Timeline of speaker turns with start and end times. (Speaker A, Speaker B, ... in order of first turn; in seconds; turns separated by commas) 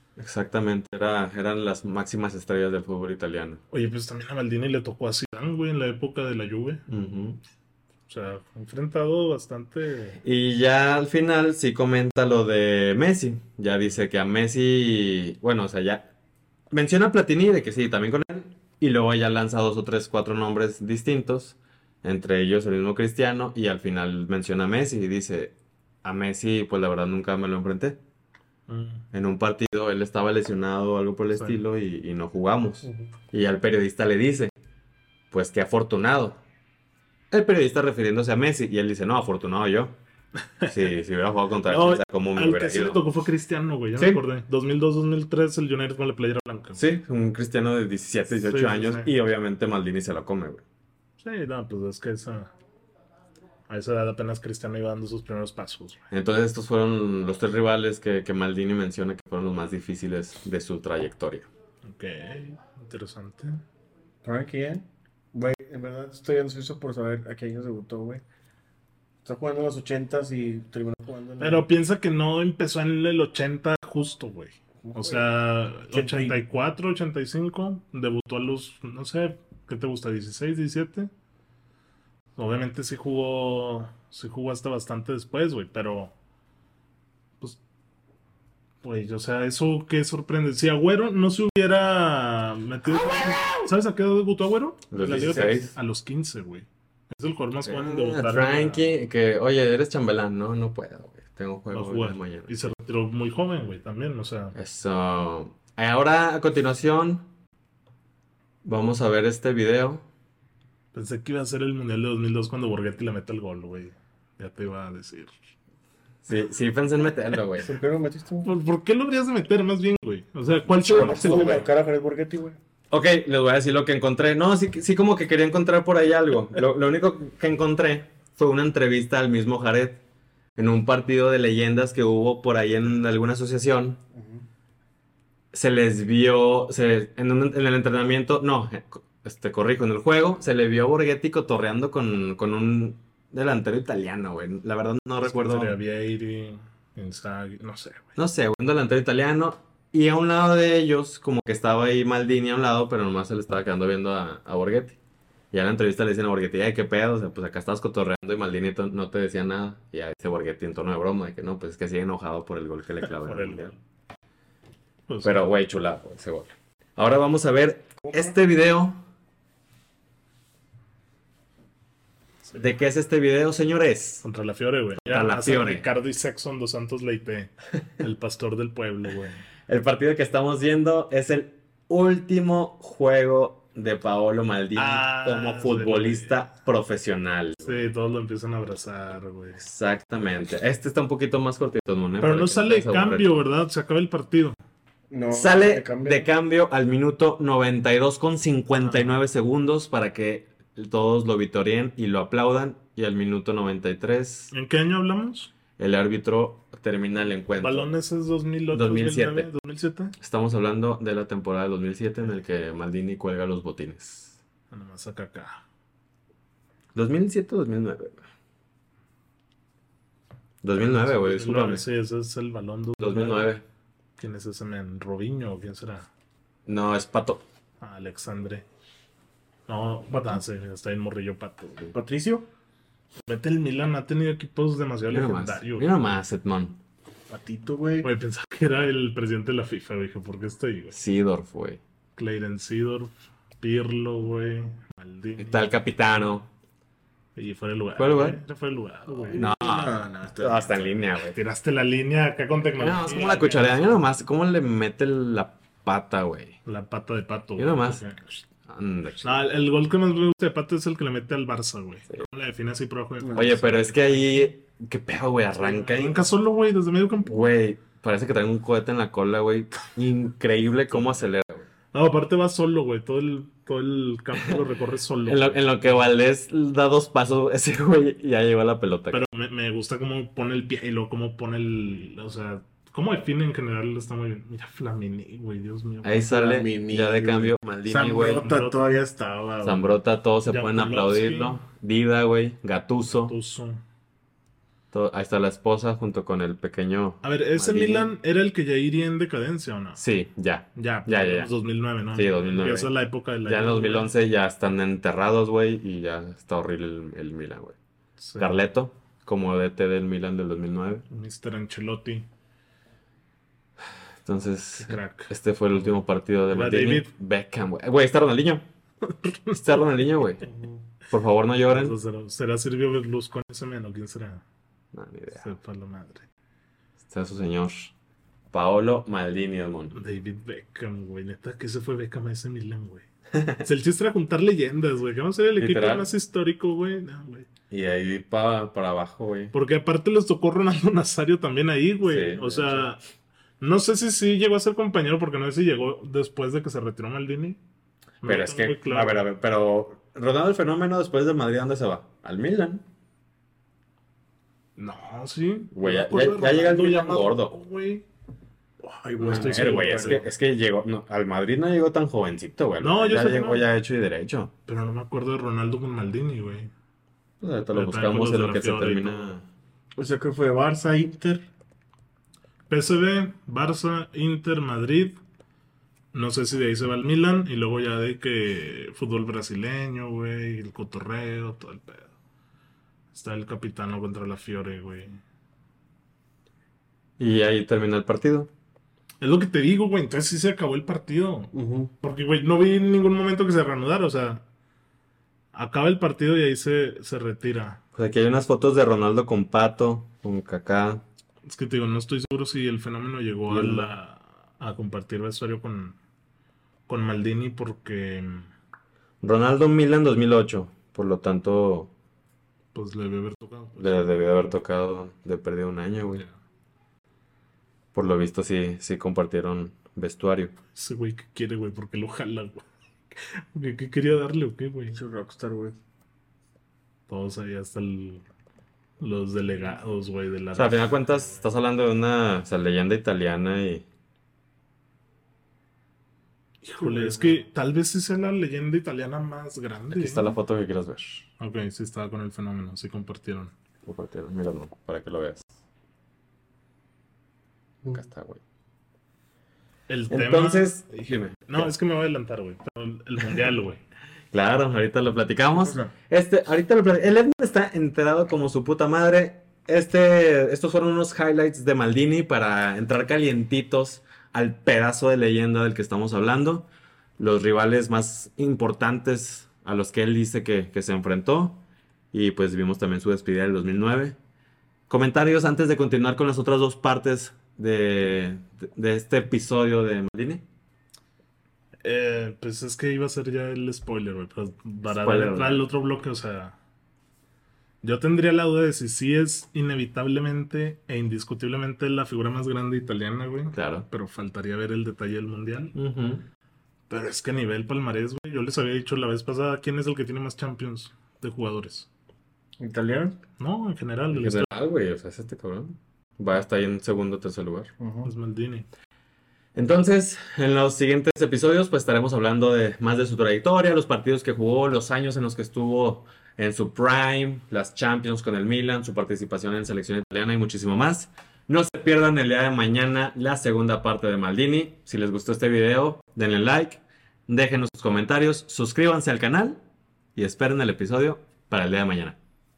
Speaker A: 0.2-3.6, Speaker B: 3.7-6.8, Speaker A: 6.9-7.4, Speaker B: 8.1-10.2, Speaker A: 10.2-16.1, Speaker A: 16.7-28.0, Speaker B: 28.7-29.0, Speaker A: 29.1-34.5, Speaker B: 31.3-31.6, Speaker A: 35.3-36.4, Speaker A: 37.3-40.0, Speaker A: 40.6-43.0, Speaker B: 41.7-46.8, Speaker A: 46.8-50.6, Speaker B: 48.4-49.1, Speaker B: 51.2-52.5, Speaker B: 53.7-56.0, Speaker A: 56.1-61.5, Speaker B: 61.8-63.6, Speaker C: 64.2-68.2, Speaker C: 69.2-71.7, Speaker B: 71.4-81.1, Speaker C: 74.8-75.3, Speaker C: 75.9-76.4, Speaker B: 82.3-86.1, Speaker B: 88.8-99.0, Speaker A: 94.9-95.7, Speaker A: 97.6-102.7, Speaker B: 101.7-104.5, Speaker A: 104.5-107.2, Speaker A: 108.6-110.0, Speaker B: 110.9-115.3, Speaker A: 116.2-117.7, Speaker C: 117.6-118.5, Speaker B: 118.4-121.6, Speaker A: 120.8-121.7, Speaker C: 120.9-122.6, Speaker A: 122.9-130.0, Speaker A: 130.6-134.0, Speaker C: 134.1-134.4, Speaker A: 135.5-145.7, Speaker B: 145.2-148.1, Speaker A: 148.2-155.0, Speaker A: 155.5-163.8, Speaker B: 163.1-163.7, Speaker B: 165.1-165.4, Speaker A: 165.2-169.0, Speaker C: 168.0-168.3, Speaker A: 172.5-174.2, Speaker B: 174.2-179.4, Speaker A: 175.0-175.8, Speaker A: 179.7-187.8, Speaker B: 184.8-186.5, Speaker B: 187.6-189.6, Speaker A: 189.6-193.4, Speaker B: 192.2-194.6, Speaker C: 195.1-196.3, Speaker A: 195.3-204.5, Speaker B: 198.8-199.1, Speaker B: 204.5-205.5, Speaker A: 205.8-207.9, Speaker B: 207.6-210.2, Speaker A: 208.7-209.5, Speaker A: 210.2-214.4, Speaker B: 214.7-215.6, Speaker A: 216.9-218.2, Speaker A: 220.6-221.8, Speaker B: 220.8-223.5, Speaker A: 223.0-223.6, Speaker B: 224.2-226.1, Speaker A: 226.7-227.4, Speaker B: 227.8-228.6, Speaker B: 229.7-231.9, Speaker C: 231.9-232.5, Speaker B: 233.2-236.0, Speaker A: 235.1-236.8, Speaker C: 237.3-238.1, Speaker B: 238.0-240.9, Speaker A: 240.9-241.8, Speaker B: 242.2-245.9, Speaker A: 245.4-246.5, Speaker B: 247.3-249.6, Speaker A: 248.0-248.4, Speaker C: 249.1-251.0, Speaker A: 249.3-251.4, Speaker B: 251.3-254.1, Speaker A: 252.8-256.6, Speaker B: 256.6-258.4, Speaker A: 257.6-258.0, Speaker A: 258.7-259.5, Speaker B: 259.2-264.3, Speaker C: 263.2-263.5, Speaker A: 263.3-266.3, Speaker B: 265.6-267.3, Speaker A: 267.2-271.7, Speaker B: 270.9-271.3, Speaker B: 271.9-276.1, Speaker A: 275.2-279.2, Speaker B: 279.1-286.2, Speaker A: 286.0-288.5, Speaker C: 286.3-289.9, Speaker B: 287.9-288.8, Speaker A: 289.6-293.4, Speaker B: 290.4-291.6, Speaker B: 293.1-293.8, Speaker A: 294.9-298.1, Speaker B: 297.2-300.0, Speaker A: 300.0-301.5, Speaker B: 300.7-304.1, Speaker A: 302.1-302.9, Speaker A: 303.4-307.8, Speaker B: 308.2-308.6, Speaker A: 308.4-311.1, Speaker B: 311.1-312.3, Speaker A: 314.2-318.6, Speaker B: 314.8-317.1, Speaker B: 319.1-320.0, Speaker A: 319.5-320.4, Speaker C: 320.4-320.8, Speaker A: 321.1-322.0, Speaker B: 321.7-324.4, Speaker A: 324.9-325.5, Speaker B: 325.4-326.2, Speaker A: 327.0-327.9, Speaker A: 328.5-329.9, Speaker B: 329.9-333.0, Speaker A: 333.3-333.6, Speaker B: 333.6-337.5, Speaker A: 335.6-336.1, Speaker A: 337.7-339.5, Speaker B: 339.5-343.0, Speaker A: 342.0-342.9, Speaker B: 343.6-347.6, Speaker B: 348.2-349.2, Speaker A: 348.2-352.8, Speaker B: 354.8-358.1, Speaker A: 355.7-357.6, Speaker C: 358.8-360.3, Speaker B: 359.2-360.2, Speaker A: 359.2-364.5, Speaker B: 362.8-363.7, Speaker B: 364.7-366.7, Speaker A: 367.4-369.4, Speaker B: 367.7-369.3, Speaker C: 370.0-371.4, Speaker B: 372.7-375.2, Speaker B: 376.1-382.1, Speaker B: 383.1-385.2, Speaker A: 387.2-388.5, Speaker B: 389.2-394.4, Speaker C: 391.5-391.9, Speaker B: 395.5-397.8, Speaker A: 397.9-401.0, Speaker B: 401.4-405.9, Speaker A: 403.5-403.9, Speaker B: 406.9-408.5, Speaker A: 409.2-411.9, Speaker B: 412.7-414.1, Speaker A: 413.8-416.2, Speaker A: 417.9-420.5, Speaker B: 420.7-425.0, Speaker C: 424.9-425.8, Speaker B: 427.1-428.2, Speaker B: 429.0-431.4, Speaker A: 430.5-433.8, Speaker B: 436.6-440.3, Speaker C: 436.8-437.4, Speaker A: 439.9-441.2, Speaker B: 441.4-443.5, Speaker A: 443.9-445.5, Speaker A: 447.9-448.4, Speaker B: 449.9-453.8, Speaker A: 450.1-451.7, Speaker A: 454.3-466.7, Speaker A: 467.2-471.6, Speaker A: 472.1-474.1, Speaker A: 474.9-480.4, Speaker B: 481.8-486.6, Speaker A: 484.9-485.6, Speaker B: 487.8-495.7, Speaker A: 493.5-493.9, Speaker A: 495.7-496.2, Speaker B: 496.9-501.9, Speaker C: 502.6-503.2, Speaker B: 503.4-504.5, Speaker A: 504.1-507.7, Speaker C: 507.8-508.1, Speaker B: 508.0-508.7, Speaker A: 509.5-529.6, Speaker A: 530.1-532.2